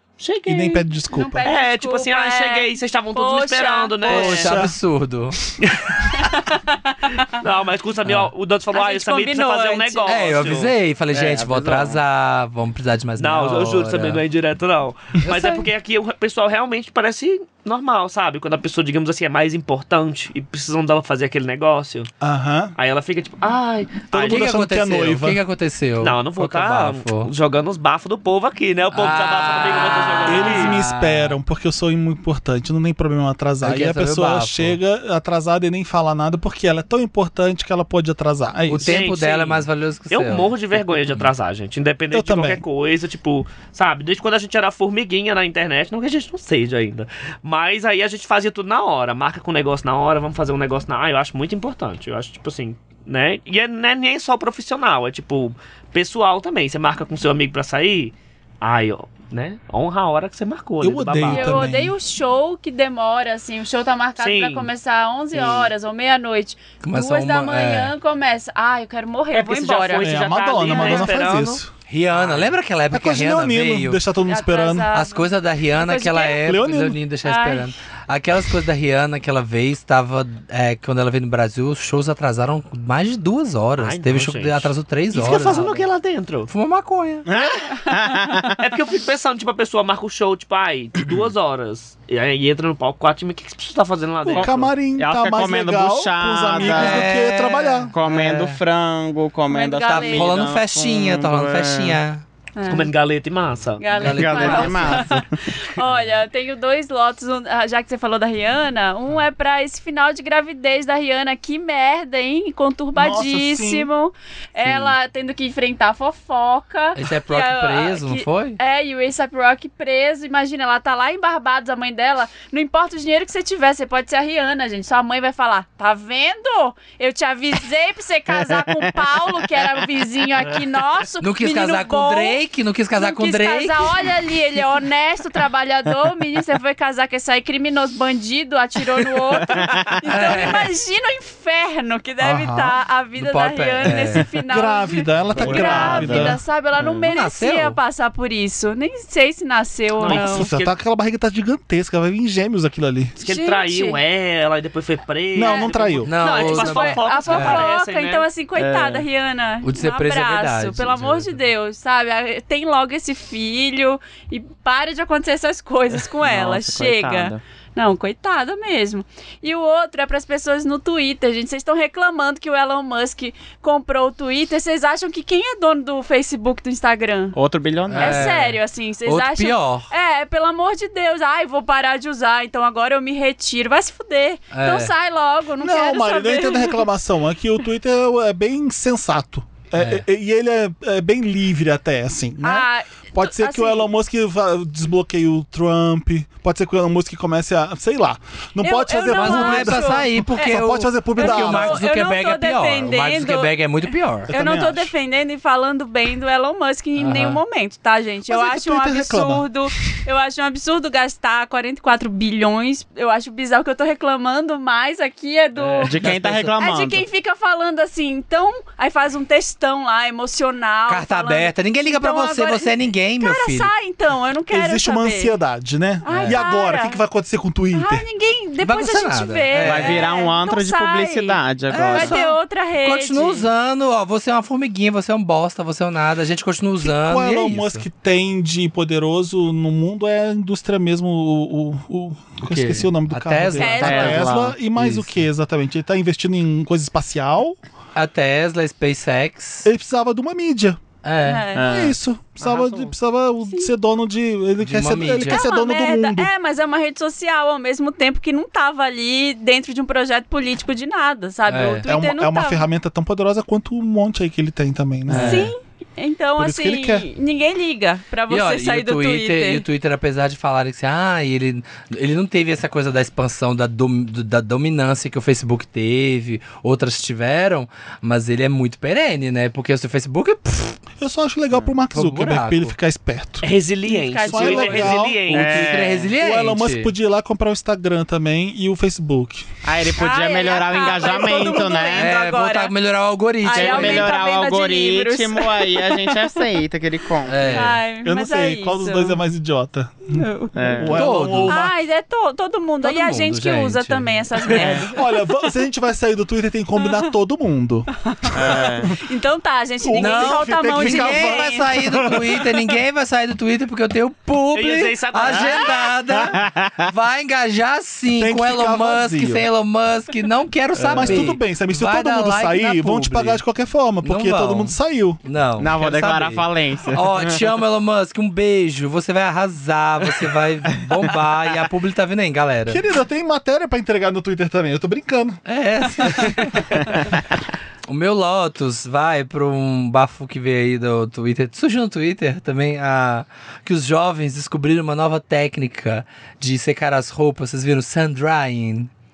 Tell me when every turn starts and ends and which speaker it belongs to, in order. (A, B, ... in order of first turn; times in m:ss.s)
0:00.2-0:00.9 A
0:00.4-0:01.5 B
0:01.1-0:04.3 C
0:01.4-0:04.6 A
0:04.1-0:05.4 D
0:04.1-0:04.8 B
0:05.6-0:06.0 A
0:06.1-0:07.4 C
0:07.4-0:10.7 A
0:08.0-0:08.3 D
0:08.7-0:10.3 C
0:10.1-0:14.2 D
0:11.1-0:12.0 E
0:13.2-0:22.1 A
0:15.3-0:15.6 D
0:22.2-0:22.7 B
0:22.8-0:24.5 A
0:24.1-0:25.4 B
0:24.3-0:27.3 D
0:26.0-0:30.8 A
0:28.9-0:31.4 D
0:30.3-0:39.0 B
0:33.6-0:34.8 D
0:38.7-0:40.5 D
0:38.8-1:01.6 A
0:42.1-0:42.6 B
1:00.8-1:01.9 B
1:01.3-1:11.1 C
1:04.2-1:04.7 A
1:05.3-1:05.7 E
1:06.8-1:07.9 D
1:09.3-1:11.6 A
1:10.0-1:11.7 B
1:11.9-1:14.0 D
1:12.1-1:12.6 A
1:12.9-1:14.9 B
1:14.3-1:16.4 C
1:14.9-1:25.9 D
1:16.4-1:17.0 B
1:17.2-1:17.7 C
1:23.8-1:26.5 A
1:26.5-1:27.3 D
1:27.3-1:28.6 E
1:28.6-1:34.7 A
1:34.2-1:37.9 B
1:34.3-1:37.1 E
1:36.6-1:38.6 D
1:37.9-1:42.0 E
1:39.5-1:40.3 C
1:39.8-1:42.2 D
1:42.6-1:42.9 C
1:42.7-1:43.9 A
1:43.8-2:12.4 C
1:43.9-1:45.1 D
1:44.0-1:45.4 E
1:53.0-1:53.9 B
1:54.6-1:54.9 D
1:57.0-1:58.6 D
2:08.4-2:08.9 E
2:11.2-2:14.1 D
2:13.0-2:30.5 C
2:19.5-2:19.8 E
2:20.0-2:20.7 D
2:22.2-2:22.8 B
2:23.2-2:24.3 D
2:24.5-2:26.4 B
2:25.4-2:26.3 E
2:25.5-2:26.4 D
2:26.8-2:27.0 E
2:27.0-2:27.8 D
2:30.0-2:30.7 A
2:30.1-2:33.2 B
2:33.2-2:38.3 A
2:33.3-2:34.0 C
2:35.3-2:36.1 B
2:35.4-2:57.4 C
2:36.0-2:37.7 D
2:38.6-2:39.1 E
2:39.6-2:41.4 D
2:46.2-2:47.4 E
2:57.3-2:58.3 E
2:57.9-2:59.9 D
2:58.0-3:06.8 C
3:04.5-3:04.9 D
3:05.6-3:21.8 B
3:09.8-3:10.0 D
3:12.4-3:13.9 C
3:18.6-3:20.6 C
3:19.1-3:24.3 D
3:21.2-3:36.0 C
3:24.3-3:24.9 B
3:27.0-3:27.4 D
3:28.3-3:29.8 B
3:35.6-3:36.5 D
3:35.8-3:37.0 E
3:36.6-3:45.4 C
3:40.9-3:43.7 D
3:44.5-3:48.0 B
3:46.0-3:47.0 C
3:46.1-3:46.4 D
3:47.7-3:53.5 C
3:48.6-3:50.1 D
3:49.6-3:52.2 E
3:51.7-3:57.8 D
3:56.8-4:07.6 B
4:02.5-4:05.1 D
4:03.6-4:04.2 C
4:03.8-4:04.6 E
4:08.0-4:09.7 D
4:09.6-4:10.8 B
4:11.0-4:11.5 D
4:11.2-4:11.7 C
4:11.5-4:12.0 E
4:11.6-4:16.3 B
4:12.6-4:12.8 A
4:14.6-4:15.4 D
4:15.3-4:22.7 C
4:21.5-4:21.9 D
4:21.9-4:25.5 B
4:25.1-4:25.4 E
4:25.1-4:25.5 D
4:25.2-4:29.6 C
4:26.4-4:27.1 B
4:28.3-4:40.8 D
4:41.0-4:43.5 B
4:41.9-4:42.7 D
4:43.4-4:45.8 A
4:43.9-4:45.0 C
4:44.2-4:49.5 B
4:45.3-4:46.9 D
4:45.3-4:46.1 E
4:49.6-4:52.1 E
4:50.0-4:52.7 C
4:51.9-4:54.1 D
4:53.4-4:56.2 C
4:53.5-4:57.6 E
4:57.3-4:57.8 D
4:57.5-4:59.2 C
4:58.0-5:01.7 B
5:00.1-5:01.0 C
5:00.6-5:01.0 E
5:00.9-5:01.6 D
5:01.4-5:05.4 C
5:02.8-5:04.6 D
5:04.6-5:08.6 B
5:04.6-5:04.9 E
5:06.8-5:07.1 C
5:08.1-5:11.7 C
5:08.3-5:08.9 E
5:09.8-5:12.6 B
5:10.0-5:23.4 D
5:14.5-5:15.9 A
5:15.3-5:15.6 E
5:16.1-5:16.7 E
5:18.2-5:19.4 B
5:20.8-5:21.3 E
5:20.9-5:25.2 B
5:24.0-5:32.8 D
5:25.6-5:27.5 E
5:32.7-5:35.4 B
5:35.4-5:37.1 D
5:36.0-5:36.3 B
5:37.9-5:48.9 D